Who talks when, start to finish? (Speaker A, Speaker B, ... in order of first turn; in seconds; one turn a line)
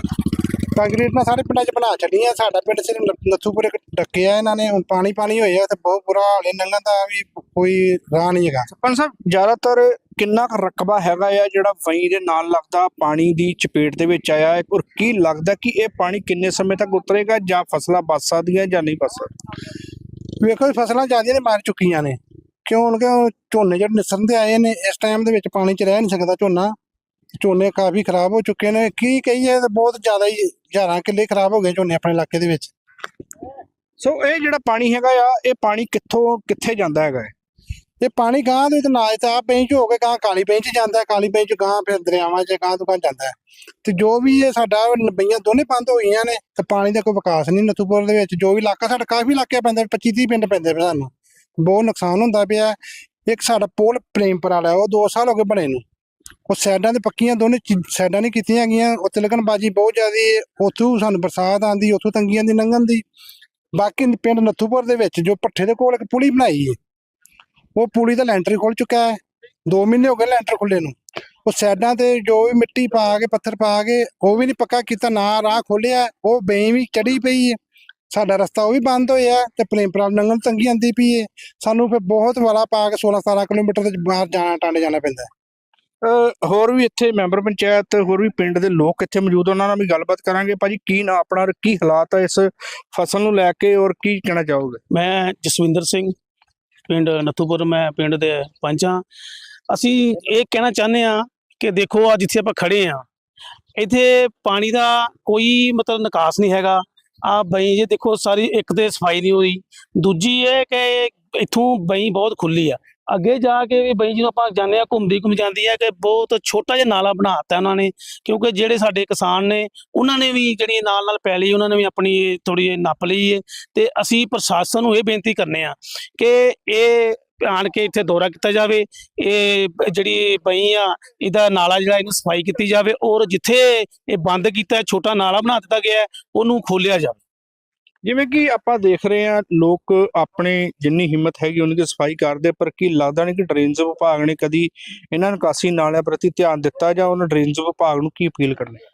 Speaker A: 0.8-8.7
Speaker B: 8.7-19.3
Speaker A: 20.4-26.7
Speaker A: 27.4-32.7
Speaker B: 34.0-37.3
Speaker A: 38.0-51.1
Speaker A: 51.6-52.8
Speaker A: 53.3-55.8
Speaker A: 56.5-63.0
Speaker A: 63.8-66.8
Speaker A: 67.8-69.2
Speaker A: 69.7-70.9
Speaker A: 71.5-77.6
Speaker A: 78.1-85.3
Speaker B: 86.0-94.8
Speaker C: 94.9-96.1
Speaker C: 96.9-99.0
Speaker C: 99.7-103.0
Speaker C: 103.8-137.2
Speaker B: 138.0-148.8